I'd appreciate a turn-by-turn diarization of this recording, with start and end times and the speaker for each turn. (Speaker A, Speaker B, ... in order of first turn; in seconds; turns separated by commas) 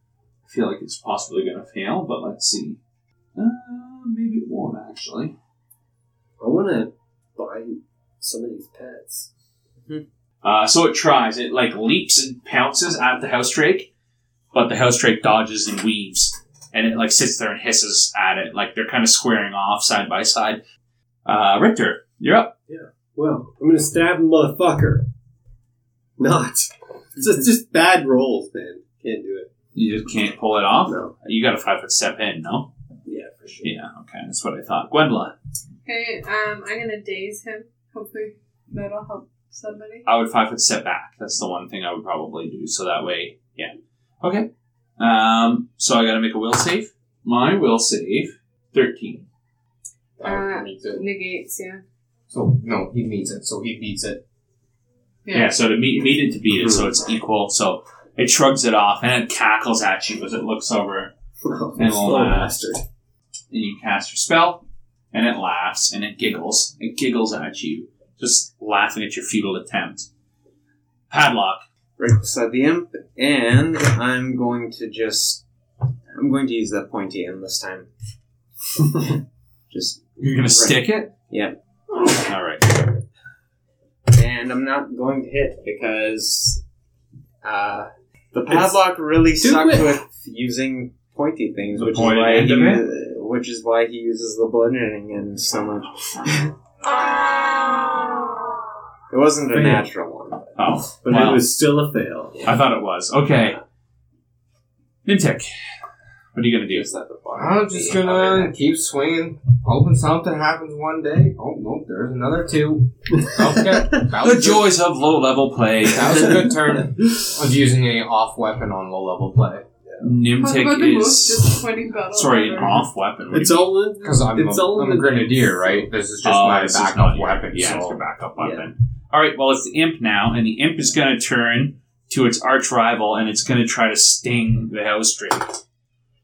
Speaker A: 0.5-2.8, Speaker A: 3.4-5.3, Speaker B: 6.4-9.3, Speaker A: 10.4-13.9, Speaker A: 14.5-20.6, Speaker A: 21.2-22.5, Speaker B: 22.7-25.1, Speaker B: 26.2-29.5, Speaker A: 29.7-32.7, Speaker B: 30.9-31.1, Speaker B: 33.0-33.7, Speaker A: 33.6-35.3, Speaker C: 35.9-40.0, Speaker A: 40.1-44.5, Speaker A: 45.0-49.3, Speaker D: 50.2-51.0, Speaker C: 50.2-51.8, Speaker D: 52.3-54.2, Speaker C: 55.2-55.5, Speaker A: 55.3-61.1, Speaker B: 56.6-56.9, Speaker B: 61.4-62.8, Speaker A: 61.8-62.8, Speaker A: 63.5-70.1, Speaker A: 71.1-71.6, Speaker E: 72.0-75.4, Speaker E: 76.1-77.9, Speaker E: 79.7-81.5, Speaker A: 80.2-81.1, Speaker A: 82.0-82.9, Speaker E: 84.1-86.6, Speaker E: 87.4-96.5, Speaker B: 89.4-90.0, Speaker A: 91.8-92.8, Speaker E: 97.3-98.1, Speaker E: 99.1-100.6, Speaker B: 99.5-99.9, Speaker A: 100.6-101.5, Speaker B: 101.0-102.5, Speaker A: 102.4-103.6, Speaker A: 105.0-105.5, Speaker A: 106.3-106.9, Speaker E: 106.7-108.5, Speaker D: 107.3-114.7, Speaker B: 113.2-114.0, Speaker A: 114.2-116.5, Speaker D: 115.9-119.7, Speaker A: 120.0-123.7, Speaker C: 120.4-122.8, Speaker B: 123.3-125.9, Speaker D: 124.0-128.0, Speaker A: 126.2-135.6, Speaker B: 128.4-128.7